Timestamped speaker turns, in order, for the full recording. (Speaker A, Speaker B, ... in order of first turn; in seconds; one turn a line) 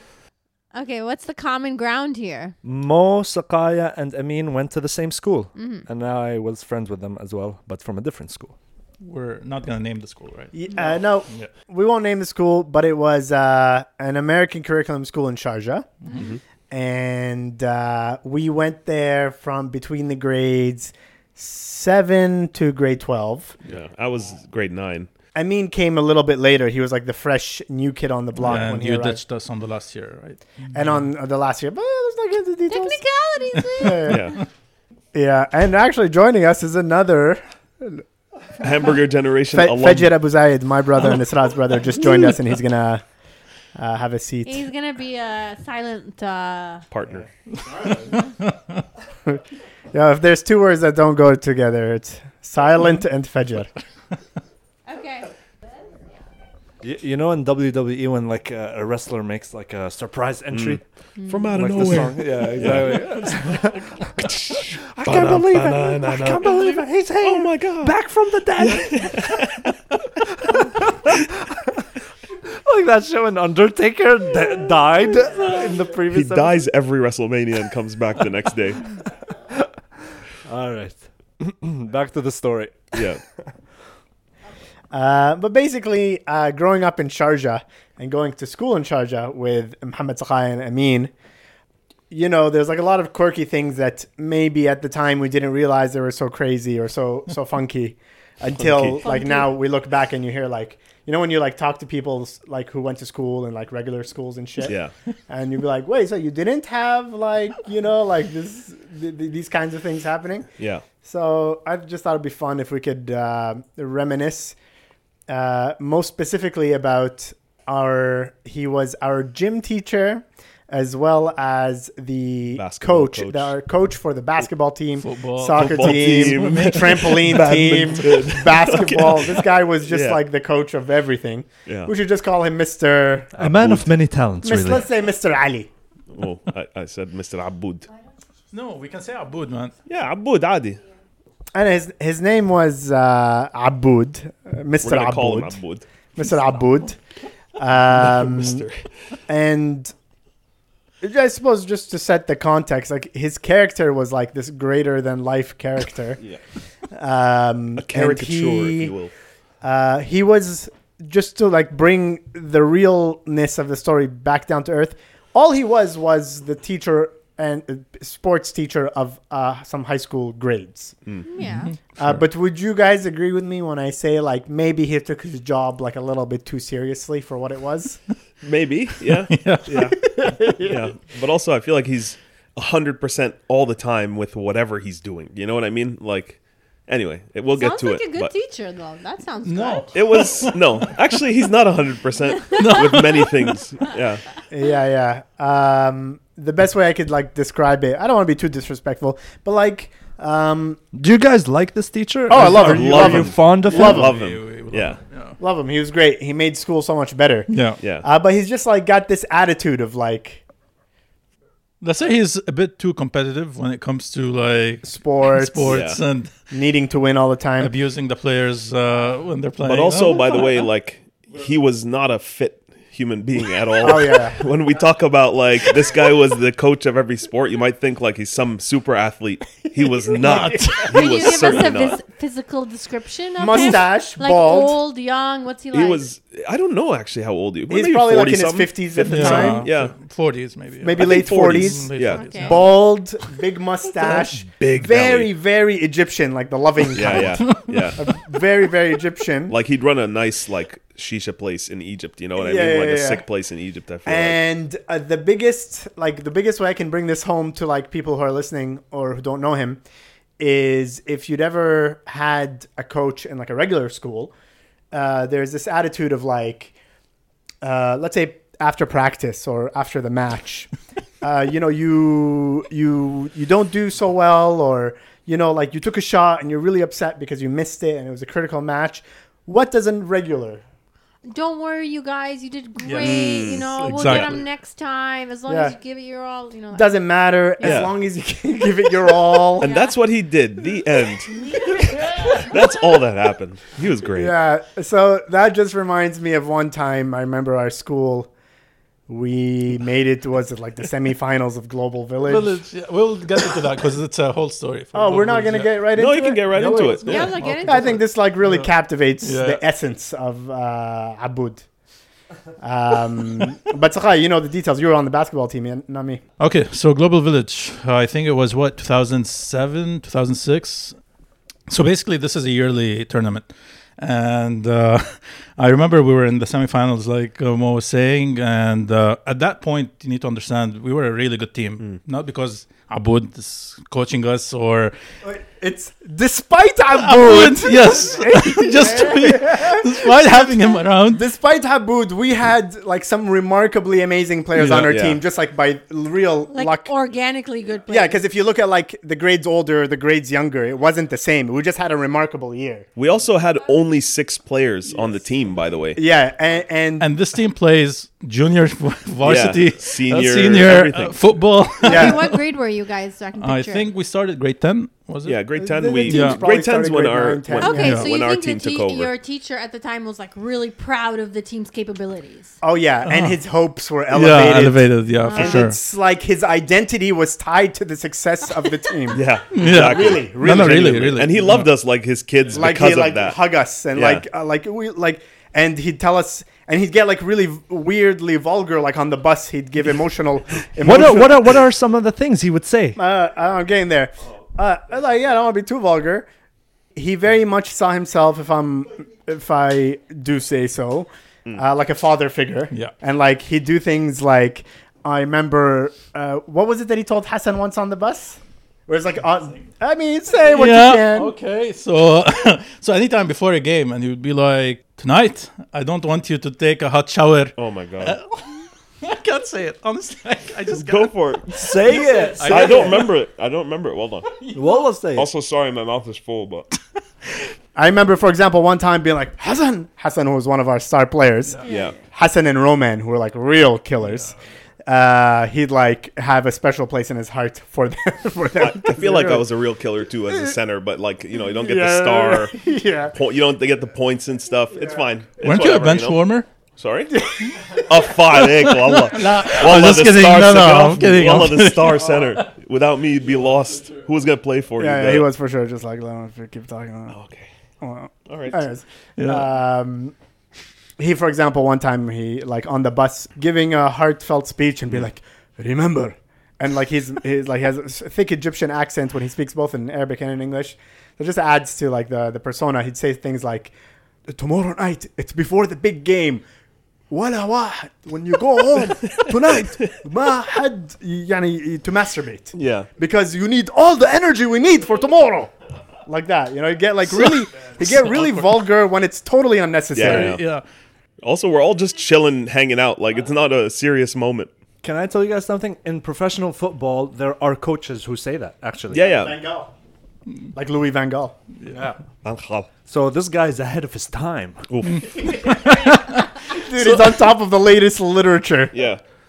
Speaker A: 0.7-2.5
Speaker B: 2.6-8.6
Speaker A: 5.5-5.9
Speaker C: 9.0-10.6
Speaker D: 10.5-16.0
Speaker E: 16.1-16.4
Speaker D: 16.7-23.6
Speaker E: 23.6-25.1
Speaker D: 25.4-29.2
Speaker C: 28.4-30.4
Speaker D: 30.7-33.0
Speaker A: 32.7-34.2
Speaker D: 33.8-34.3
Speaker E: 34.1-34.4
Speaker D: 35.1-38.0
Speaker E: 38.6-40.1
Speaker D: 39.5-43.0
Speaker D: 43.8-44.6
Speaker A: 44.5-46.9
Speaker E: 46.9-47.3
Speaker C: 47.8-48.8
Speaker D: 49.9-53.7
Speaker A: 54.9-55.3
Speaker B: 56.8-60.8
Speaker E: 60.5-68.0
Speaker A: 61.2-61.5
Speaker B: 61.5-69.5
Speaker E: 68.5-69.8
Speaker B: 70.2-71.7
Speaker E: 70.4-71.2
Speaker B: 72.5-76.6
Speaker E: 76.1-78.9
Speaker B: 80.5-83.1
Speaker E: 82.9-83.2
Speaker D: 84.9-91.1
Speaker D: 92.1-104.8
Speaker E: 98.6-99.0
Speaker A: 99.0-99.5
Speaker E: 104.6-104.9
Speaker D: 105.3-110.5
Speaker E: 110.6-110.9
Speaker D: 111.0-114.6
Speaker D: 115.3-133.7
Speaker E: 122.5-123.5
Speaker C: 125.0-128.0
Speaker E: 125.5-130.2
Speaker E: 131.7-131.9
Speaker B: 133.4-134.9
Speaker E: 133.4-133.9
Speaker D: 134.4-135.7
Speaker E: 136.1-137.9
Speaker C: 138.5-139.7
Speaker E: 139.9-140.8
Speaker D: 141.5-145.6
Speaker E: 144.8-145.9
Speaker D: 146.2-147.0
Speaker D: 147.6-148.7
Speaker E: 147.9-148.8
Speaker D: 149.3-149.9
Speaker D: 151.0-156.2
Speaker D: 156.9-158.9
Speaker E: 157.8-159.1
Speaker D: 159.6-171.0
Speaker A: 171.2-171.7
Speaker C: 171.4-172.2
Speaker D: 172.0-178.0
Speaker E: 178.4-188.3
Speaker C: 179.3-180.2
Speaker D: 179.7-180.9
Speaker A: 187.5-190.2
Speaker C: 189.4-191.0
Speaker E: 189.9-194.2
Speaker A: 192.5-192.8
Speaker C: 192.6-193.6
Speaker D: 194.5-200.8
Speaker B: 200.9-204.1
Speaker D: 202.3-204.1
Speaker E: 202.4-205.0
Speaker C: 203.7-205.4
Speaker D: 205.4-210.4
Speaker C: 207.5-207.8
Speaker E: 207.8-208.1
Speaker C: 211.8-216.3
Speaker D: 214.8-215.8
Speaker E: 215.7-216.0
Speaker D: 216.5-217.7
Speaker C: 217.6-220.5
Speaker E: 219.6-232.0
Speaker D: 223.8-224.5
Speaker D: 229.7-230.9
Speaker C: 230.2-230.9
Speaker A: 230.9-236.0
Speaker D: 233.4-234.8
Speaker E: 235.7-239.9
Speaker D: 237.7-239.7
Speaker C: 239.0-242.7
Speaker D: 240.8-249.6
Speaker E: 241.0-242.2
Speaker A: 242.1-242.6
Speaker E: 244.0-245.3
Speaker E: 246.9-248.1
Speaker E: 249.5-254.4
Speaker D: 252.4-253.2
Speaker D: 254.1-259.8
Speaker D: 260.4-264.3
Speaker D: 264.9-266.8
Speaker D: 267.6-270.7
Speaker D: 271.2-280.6
Speaker A: 281.3-286.9
Speaker C: 282.8-284.4
Speaker E: 283.0-284.3
Speaker D: 285.5-285.8
Speaker D: 286.7-289.7
Speaker E: 287.6-287.9
Speaker E: 289.6-294.3
Speaker A: 289.6-290.0
Speaker D: 291.6-292.5
Speaker D: 294.1-298.3
Speaker D: 299.1-302.6
Speaker C: 302.3-305.8
Speaker D: 304.9-306.8
Speaker E: 305.9-307.4
Speaker C: 306.5-308.7
Speaker A: 307.1-308.0
Speaker D: 307.6-311.6
Speaker C: 309.2-309.6
Speaker D: 312.6-316.2
Speaker C: 316.4-321.0
Speaker C: 321.7-323.5
Speaker C: 324.0-334.9
Speaker D: 335.2-346.9
Speaker C: 337.0-341.2
Speaker C: 344.6-344.9
Speaker E: 344.6-345.2
Speaker A: 346.5-348.2
Speaker D: 347.9-352.9
Speaker E: 353.0-356.0
Speaker D: 355.9-357.1
Speaker C: 357.0-362.4
Speaker E: 359.2-361.2
Speaker D: 361.8-362.2
Speaker A: 361.8-363.9
Speaker C: 363.4-366.4
Speaker E: 365.2-369.1
Speaker D: 365.6-368.0
Speaker A: 367.6-372.6
Speaker C: 367.8-368.1
Speaker D: 372.6-381.2
Speaker C: 373.1-373.4
Speaker C: 374.1-375.8
Speaker A: 375.2-375.7
Speaker E: 379.1-383.4
Speaker C: 379.5-381.7
Speaker D: 382.5-391.6
Speaker E: 383.9-384.2
Speaker B: 390.8-393.0
Speaker D: 393.0-396.3
Speaker D: 396.9-411.3
Speaker C: 410.5-418.5
Speaker E: 417.6-418.2
Speaker C: 419.0-423.1
Speaker E: 420.7-424.5
Speaker B: 421.6-423.1
Speaker B: 424.5-425.3
Speaker E: 425.1-426.7
Speaker D: 427.8-434.3
Speaker A: 431.6-431.9
Speaker E: 431.7-431.9
Speaker D: 434.9-439.5
Speaker E: 438.6-442.6
Speaker D: 440.3-440.6
Speaker D: 441.5-443.2
Speaker E: 443.1-446.2
Speaker D: 444.7-445.0
Speaker C: 445.4-446.5
Speaker E: 446.8-455.3
Speaker D: 447.1-447.7
Speaker C: 448.2-452.4
Speaker D: 454.8-457.2
Speaker E: 457.1-457.5
Speaker D: 457.8-460.1
Speaker E: 458.3-458.7
Speaker C: 459.2-459.5
Speaker D: 461.0-473.7
Speaker D: 474.3-476.4
Speaker D: 477.1-485.5
Speaker E: 478.9-480.0
Speaker E: 482.5-482.9
Speaker D: 486.1-490.4
Speaker C: 487.1-488.6
Speaker E: 489.9-490.4
Speaker C: 490.0-490.6
Speaker E: 491.2-494.5
Speaker B: 494.8-499.1
Speaker E: 498.9-499.4
Speaker D: 499.1-499.7
Speaker D: 500.6-501.4
Speaker B: 501.7-502.0
Speaker E: 502.2-502.7
Speaker B: 502.9-504.7
Speaker E: 504.7-505.3
Speaker C: 504.9-507.1
Speaker D: 505.6-508.8
Speaker E: 508.7-509.0